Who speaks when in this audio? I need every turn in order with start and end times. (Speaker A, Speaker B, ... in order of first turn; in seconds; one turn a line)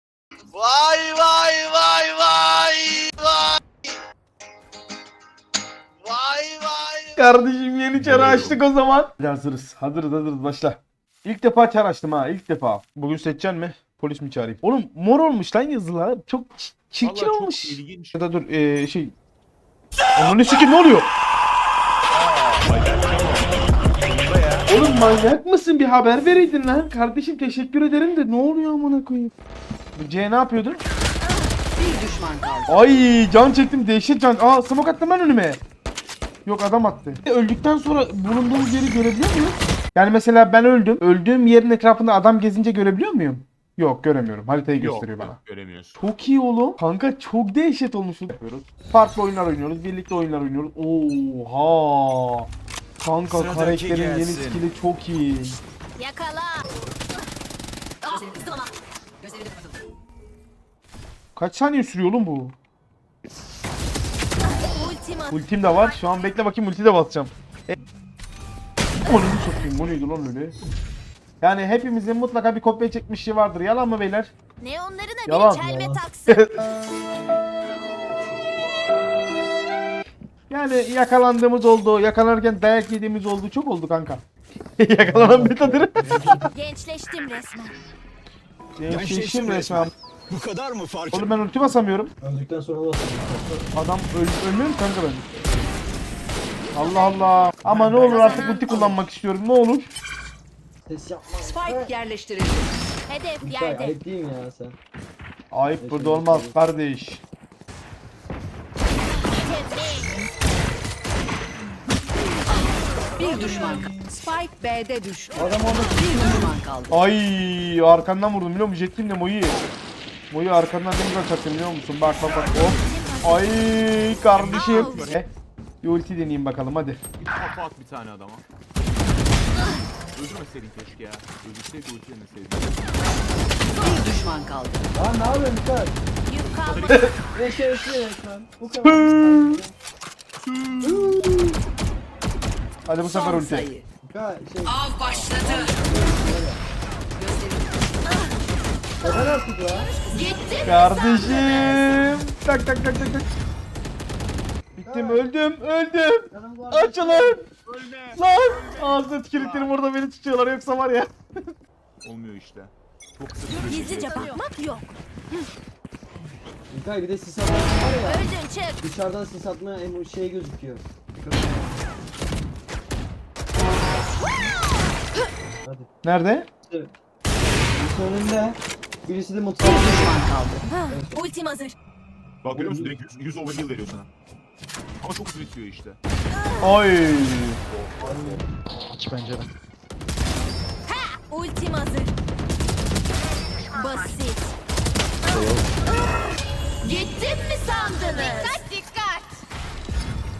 Speaker A: 0.5-3.9
Speaker A: 6.0-7.4
Speaker B: 7.2-19.1
Speaker C: 8.0-8.6
Speaker C: 17.0-18.2
Speaker B: 20.1-21.1
Speaker C: 22.5-23.6
Speaker C: 24.2-24.6
Speaker B: 24.7-29.3
Speaker B: 29.9-30.8
Speaker D: 31.2-31.5
Speaker E: 31.7-32.7
Speaker B: 32.7-35.6
Speaker B: 36.5-45.4
Speaker C: 44.7-46.0
Speaker B: 46.0-52.5
Speaker B: 53.0-55.6
Speaker F: 53.3-54.6
Speaker D: 56.0-56.7
Speaker D: 58.0-58.7
Speaker B: 61.3-62.5
Speaker D: 64.4-65.4
Speaker B: 65.3-67.8
Speaker B: 69.0-70.6
Speaker B: 71.4-74.3
Speaker D: 74.6-76.4
Speaker B: 75.3-75.7
Speaker G: 75.6-76.0
Speaker B: 76.3-76.7
Speaker B: 80.5-84.2
Speaker B: 84.8-86.4
Speaker G: 85.0-86.5
Speaker D: 86.5-87.8
Speaker B: 88.8-89.9
Speaker F: 88.9-91.4
Speaker B: 91.1-92.1
Speaker G: 92.2-93.7
Speaker B: 93.7-95.3
Speaker D: 96.7-97.5
Speaker B: 96.7-99.9
Speaker G: 97.7-99.0
Speaker D: 98.1-98.8
Speaker G: 100.8-101.9
Speaker E: 101.4-102.7
Speaker D: 103.1-104.0
Speaker G: 103.4-104.8
Speaker B: 105.5-107.2
Speaker G: 105.8-106.6
Speaker D: 109.2-110.2
Speaker G: 113.2-114.0
Speaker E: 113.2-117.0
Speaker G: 115.3-116.5
Speaker B: 116.9-119.6
Speaker B: 120.3-125.3
Speaker D: 122.4-123.5
Speaker C: 124.2-125.2
Speaker D: 124.5-125.0
Speaker B: 125.8-127.0
Speaker C: 127.2-128.4
Speaker C: 130.1-132.8
Speaker E: 133.8-134.9
Speaker G: 134.9-135.9
Speaker D: 136.2-137.1
Speaker C: 136.5-137.2
Speaker G: 137.3-139.7
Speaker B: 138.8-139.6
Speaker C: 140.5-140.9
Speaker G: 140.8-141.6
Speaker B: 142.9-143.7
Speaker E: 143.0-143.8
Speaker G: 144.0-146.6
Speaker E: 147.2-147.8
Speaker D: 148.1-148.3
Speaker G: 149.0-149.9
Speaker E: 149.8-150.7
Speaker D: 150.1-151.8
Speaker B: 150.6-153.2
Speaker B: 154.8-157.4
Speaker G: 154.8-155.3
Speaker G: 156.3-157.4
Speaker C: 157.7-159.7
Speaker B: 158.1-161.1
Speaker C: 162.0-164.4
Speaker D: 163.5-164.9
Speaker G: 166.7-171.7
Speaker D: 168.0-168.8
Speaker B: 176.0-176.5
Speaker G: 176.7-176.9
Speaker G: 177.6-180.2
Speaker E: 179.6-180.7
Speaker D: 180.6-181.7
Speaker G: 180.9-181.3
Speaker C: 182.4-184.1
Speaker G: 182.5-183.0
Speaker C: 185.0-186.0
Speaker D: 186.3-186.8
Speaker B: 186.6-187.6
Speaker G: 188.0-188.5
Speaker D: 190.8-192.1
Speaker D: 193.7-194.5
Speaker D: 195.2-198.7
Speaker E: 198.1-198.5